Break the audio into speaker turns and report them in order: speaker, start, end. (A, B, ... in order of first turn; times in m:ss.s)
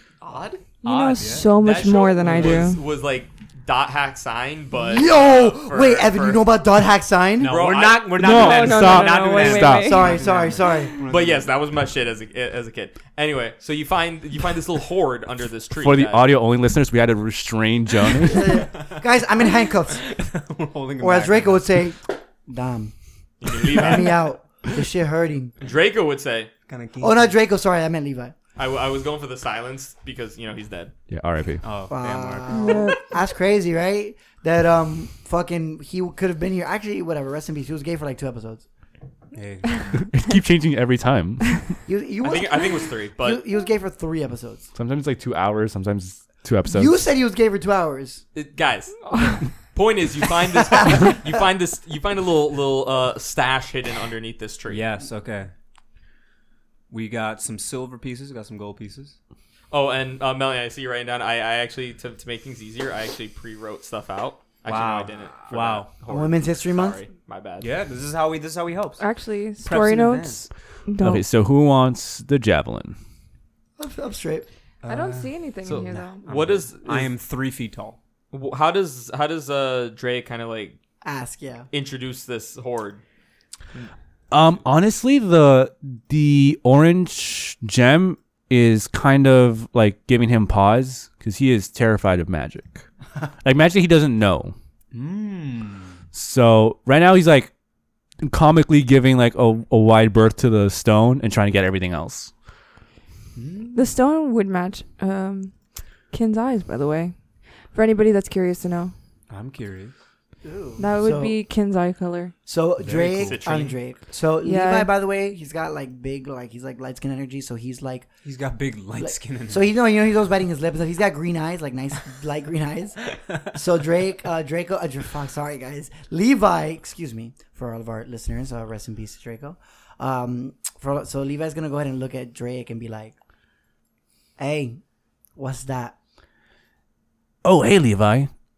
0:00.2-0:00.6 A
0:00.8-0:01.5 B
0:00.8-0:02.8 C
0:01.6-0:06.4 A
0:02.2-0:02.6 B
0:04.7-0:07.5 D
0:07.4-0:08.4 A
0:07.4-0:11.5 B
0:08.1-0:10.1 E
0:08.2-0:10.1 C
0:09.8-0:10.9 D
0:11.0-0:16.3 A
0:15.8-0:18.6 E
0:18.2-0:20.0 D
0:18.7-0:19.0 B
0:19.9-0:21.6 B
0:21.0-0:22.9 D
0:23.4-0:24.3 A
0:23.5-0:25.5 D
0:25.6-0:26.5 A
0:26.7-0:27.3 B
0:27.0-0:28.3 D
0:28.6-0:30.9 A
0:31.1-0:31.6 E
0:31.6-0:32.5 B
0:31.9-0:38.6 D
0:32.5-0:33.0 C
0:39.3-0:39.9 B
0:39.9-0:41.8 E
0:41.9-0:44.7 D
0:42.2-0:43.4 A
0:44.7-0:47.0 E
0:46.7-0:48.2 D
0:48.3-0:54.8 A
0:49.1-0:49.4 C
0:54.7-0:55.5 B
0:56.9-0:59.1 B
0:59.7-1:07.7 A
1:04.6-1:05.9 B
1:06.1-1:07.0 D
1:07.6-1:09.0 B
1:09.0-1:11.2 C
1:09.6-1:10.4 B
1:11.0-1:13.0 E
1:13.8-1:14.5 D
1:14.8-1:18.0 B
1:14.9-1:16.2 C
1:15.6-1:17.1 A
1:18.3-1:20.8 A
1:21.0-1:21.7 D
1:21.7-1:23.0 A
1:24.3-1:32.8 E
1:33.4-1:34.5 E
1:34.9-1:36.0 B
1:36.1-1:37.5 E
1:38.2-1:42.3 E
1:43.3-1:43.8 B
1:43.7-1:45.6 C
1:46.1-1:48.9 C
1:49.3-1:49.9 B
1:50.4-1:51.4 D
1:50.8-1:52.3 C
1:52.4-1:58.1 D
1:52.8-1:53.4 B
1:52.9-1:53.8 A
1:54.4-1:54.9 C
1:58.2-1:59.6 B
1:59.0-2:13.1 D
2:14.4-2:14.8 D
2:15.4-2:15.9 D
2:17.4-2:18.3 E